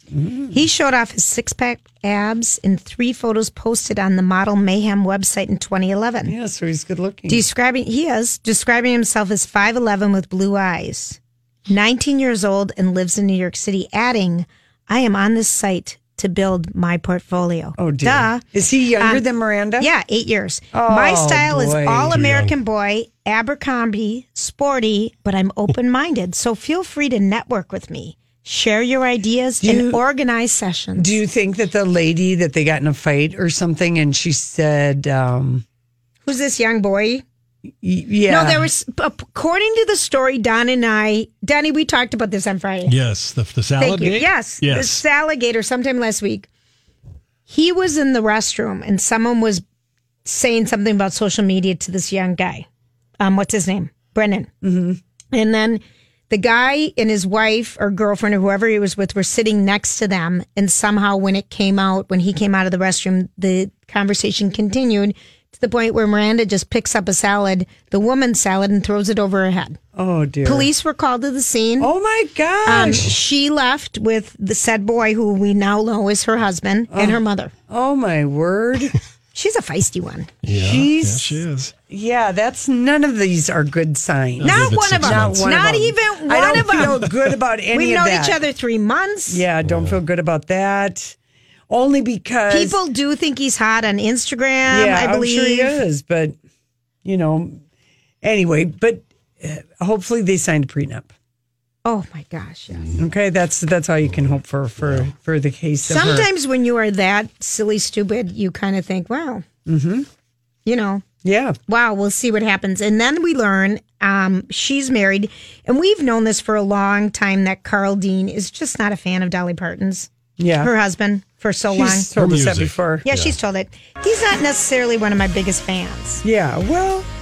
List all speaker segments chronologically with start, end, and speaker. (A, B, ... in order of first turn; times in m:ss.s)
0:00.1-0:00.6 A
0:00.5-0:06.3 B
0:06.3-0:07.4 A
0:07.3-0:18.4 B
0:17.8-0:19.9 A
0:19.8-0:31.2 B
0:20.7-0:22.2 A
0:22.1-0:22.6 C
0:29.6-0:30.0 A
0:31.0-0:35.6 A
0:36.2-0:37.2 B
0:37.8-0:38.7 A
0:38.3-0:42.9 B
0:42.9-0:45.0 C
0:43.8-0:46.5 B
0:47.5-0:49.6 B
0:50.3-0:52.6 B
0:53.2-0:54.5 B
0:54.6-0:55.0 A
0:55.3-1:09.8 B
1:09.9-1:10.7 A
1:10.4-1:11.9 B
1:11.8-1:13.1 A
1:12.6-1:17.5 B
1:12.8-1:13.1 C
1:16.9-1:18.9 A
1:19.3-1:20.3 B
1:20.4-1:21.7 C
1:20.5-1:28.4 A
1:24.4-1:25.8 C
1:24.4-1:27.0 B
1:27.7-1:29.4 B
1:29.3-1:31.1 A
1:29.6-1:30.0 C
1:31.7-1:32.8 A
1:32.5-1:35.8 B
1:34.7-1:36.3 A
1:37.0-1:37.6 A
1:38.2-1:41.1 A
1:41.8-1:42.9 B
1:43.0-1:46.3 A
1:44.8-1:45.1 C
1:45.9-1:49.4 B
1:49.6-1:50.1 A
1:50.6-1:51.0 B
1:51.2-1:51.6 A
1:51.7-2:02.1 B
2:00.4-2:00.7 A
2:01.7-2:03.0 A
2:02.1-2:03.3 C
2:03.0-2:06.2 B
2:06.2-2:07.1 A